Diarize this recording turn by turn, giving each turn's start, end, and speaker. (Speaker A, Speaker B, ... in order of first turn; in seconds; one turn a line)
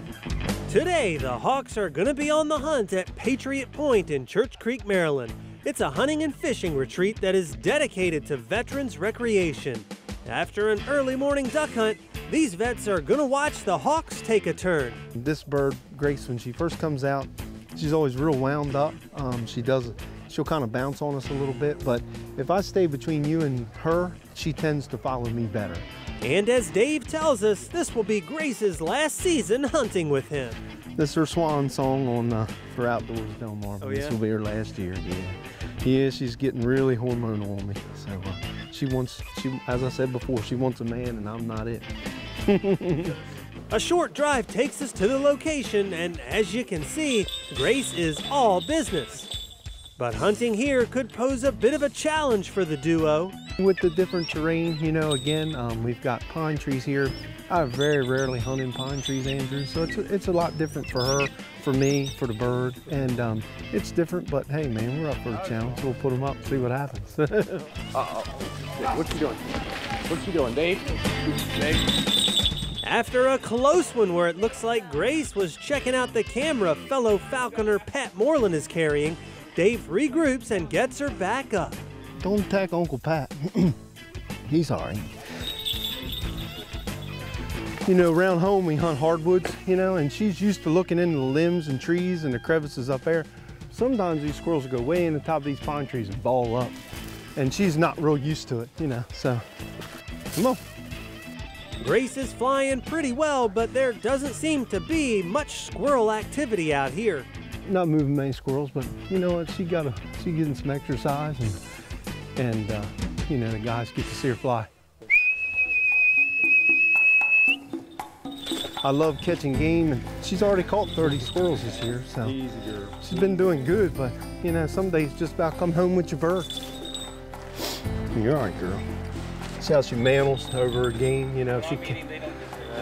Speaker A: 0.7-15.0
Speaker B: 15.1-25.8
Speaker A: 26.2-30.6
Speaker B: 31.0-41.9
Speaker A: 33.8-34.2
Speaker B: 42.5-43.2
Speaker A: 43.7-49.3
Speaker A: 50.0-53.4
Speaker B: 53.6-67.7
Speaker C: 67.9-71.0
Speaker C: 71.5-71.8
Speaker A: 72.8-81.8
Speaker B: 82.2-83.8
Speaker B: 84.5-85.2
Speaker B: 87.8-96.8
Speaker B: 97.4-99.4
Speaker B: 100.3-100.6
Speaker A: 101.8-107.3
Speaker B: 107.7-111.6
Speaker B: 112.4-114.7
Speaker B: 118.8-122.4
Speaker C: 122.2-123.0
Speaker B: 123.0-126.7
Speaker B: 128.1-128.8
Speaker B: 129.6-132.1